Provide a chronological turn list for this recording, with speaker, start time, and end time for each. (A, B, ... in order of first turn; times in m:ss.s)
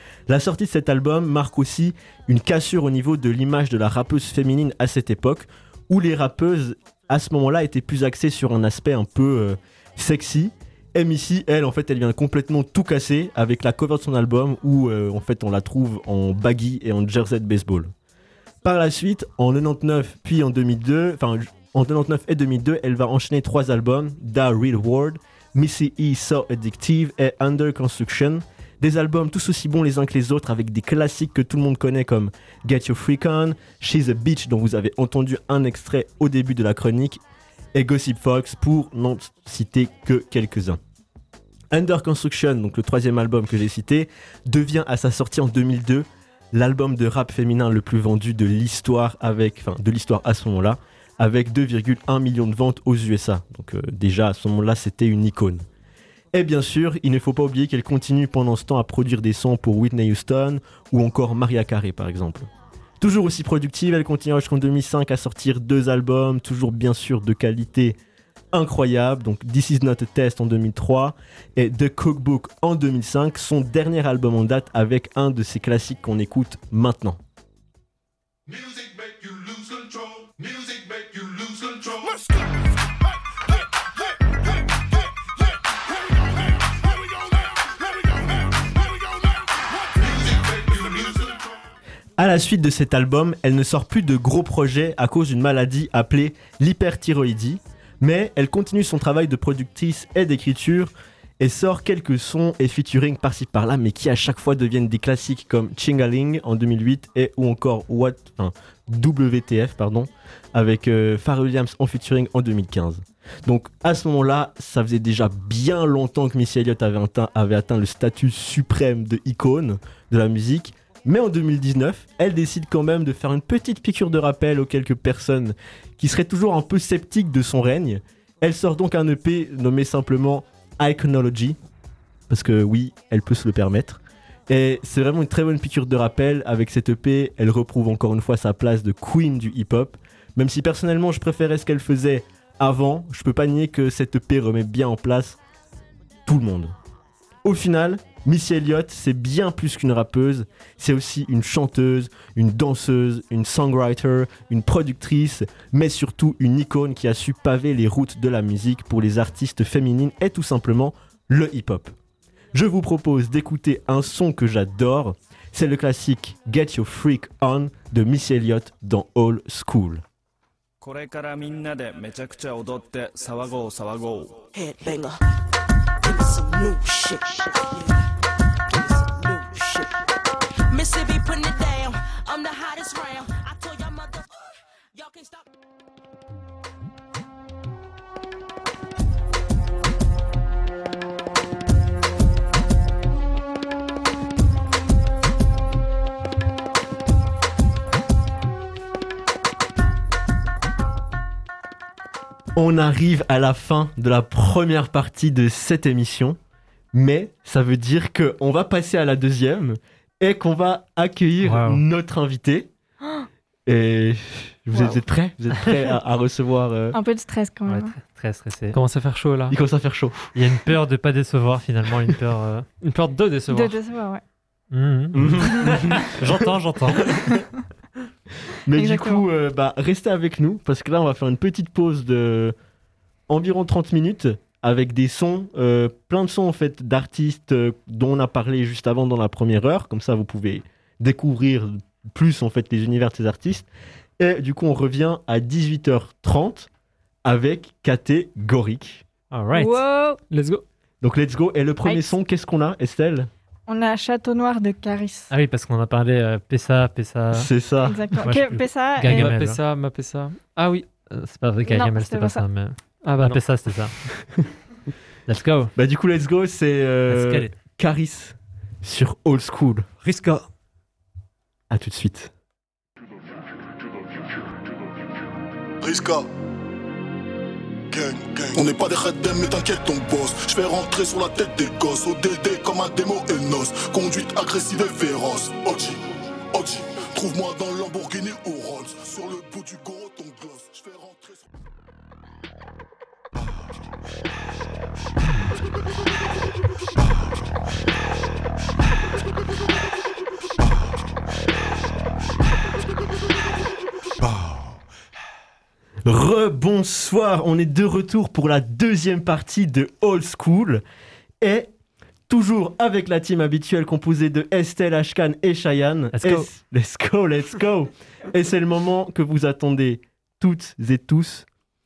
0:00.3-0:17.9 A
0:18.6-0:37.2 A
0:37.8-0:40.8 A
0:41.7-0:55.6 A
0:56.3-1:02.5 A
1:03.0-1:08.0 A
1:08.5-1:17.2 A
1:32.2-2:11.6 A
2:12.3-2:25.4 A
2:26.3-2:26.8 A
2:27.4-2:41.9 A
2:42.5-2:50.0 A
2:50.8-2:54.5 B
2:54.6-2:55.2 C
2:56.0-2:57.8 C
2:58.7-2:59.9 C
3:00.7-3:04.2 C
3:05.0-3:05.3 C
3:22.6-3:26.4 A
3:26.9-3:32.7 A
3:31.4-3:31.8 D
3:33.7-3:37.0 A
3:36.9-3:38.0 E
3:37.7-3:38.8 D
3:38.7-3:39.6 F
3:39.5-3:40.3 A
3:40.4-3:42.7 D
3:42.8-3:43.8 F
3:43.5-3:44.2 E
3:44.7-3:47.2 D
3:45.2-3:46.3 A
3:47.0-3:47.3 A
3:48.7-3:52.6 A
3:48.8-3:49.2 E
3:53.3-4:03.7 A
4:04.2-4:06.7 A
4:07.2-4:09.0 A
4:09.3-4:09.8 D
4:09.5-4:10.2 E
4:10.3-4:10.6 F
4:11.0-4:13.3 A
4:13.7-4:15.3 E
4:15.3-4:17.5 D
4:17.3-4:18.1 A
4:17.8-4:19.3 E
4:18.2-4:19.6 D
4:19.1-4:20.9 F
4:21.1-4:24.0 D
4:21.7-4:22.5 E
4:23.0-4:23.4 F
4:25.3-4:25.7 D
4:25.8-4:29.9 A
4:27.1-4:27.5 D
4:30.0-4:30.5 D
4:31.7-4:32.3 A
4:35.8-4:36.3 G
4:37.9-4:51.4 G
5:06.0-5:10.8 A
5:11.4-5:11.7 A
5:12.3-5:21.5 A
5:16.1-5:16.5 D